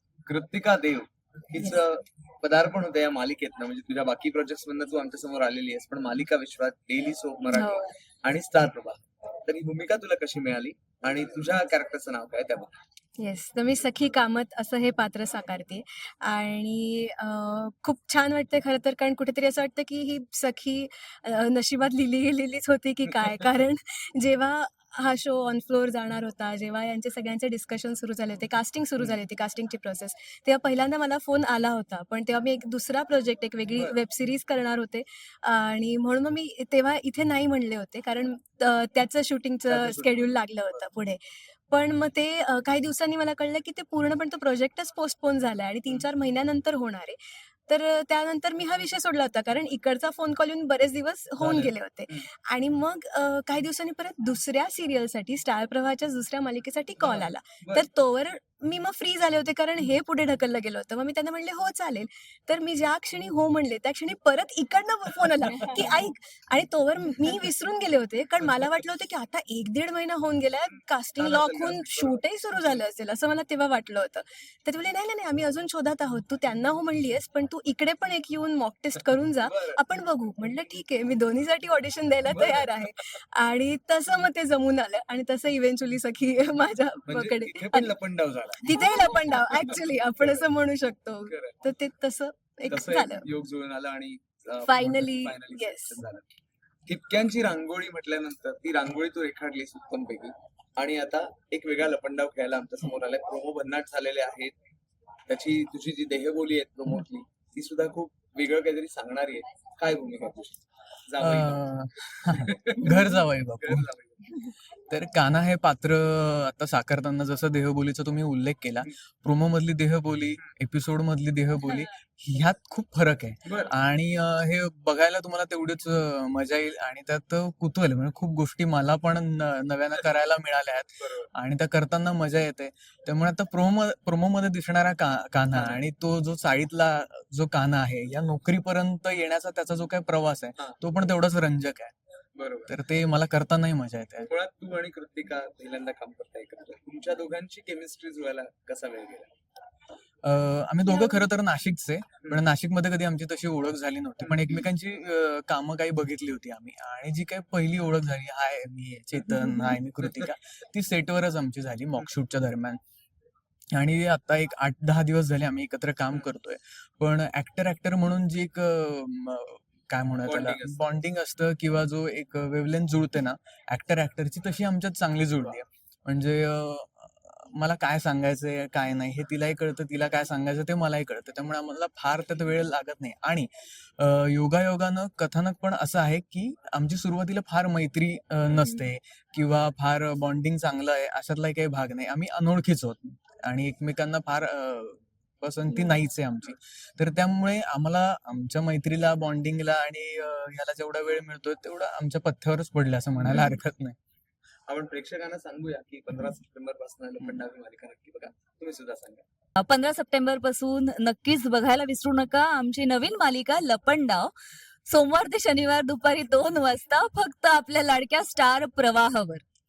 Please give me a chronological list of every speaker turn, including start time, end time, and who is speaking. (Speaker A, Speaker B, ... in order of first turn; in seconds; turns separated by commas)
Speaker A: 0.2-12.7, Speaker B: 7.5-7.8, Speaker B: 13.2-88.0, Speaker A: 39.7-40.3, Speaker A: 51.4-52.2, Speaker A: 57.0-57.8, Speaker A: 65.6-65.9, Speaker A: 70.7-72.8, Speaker A: 79.4-79.8, Speaker A: 82.3-82.8, Speaker A: 87.1-90.5, Speaker B: 88.6-93.2, Speaker A: 91.3-91.6, Speaker A: 92.7-96.3, Speaker B: 94.6-96.0, Speaker A: 96.9-104.5, Speaker A: 105.3-111.6, Speaker C: 111.2-113.9, Speaker A: 112.3-114.3, Speaker C: 114.9-141.9, Speaker A: 123.5-123.7, Speaker A: 131.0-131.3, Speaker A: 135.5-135.8, Speaker A: 142.3-142.8, Speaker C: 142.7-144.3, Speaker A: 144.2-149.3, Speaker C: 150.2-162.8, Speaker B: 150.9-151.2, Speaker A: 154.2-154.6, Speaker A: 160.0-160.3, Speaker C: 163.7-203.9, Speaker A: 170.2-170.9, Speaker A: 203.2-203.5, Speaker A: 204.7-209.2, Speaker D: 209.6-214.3, Speaker D: 214.9-219.4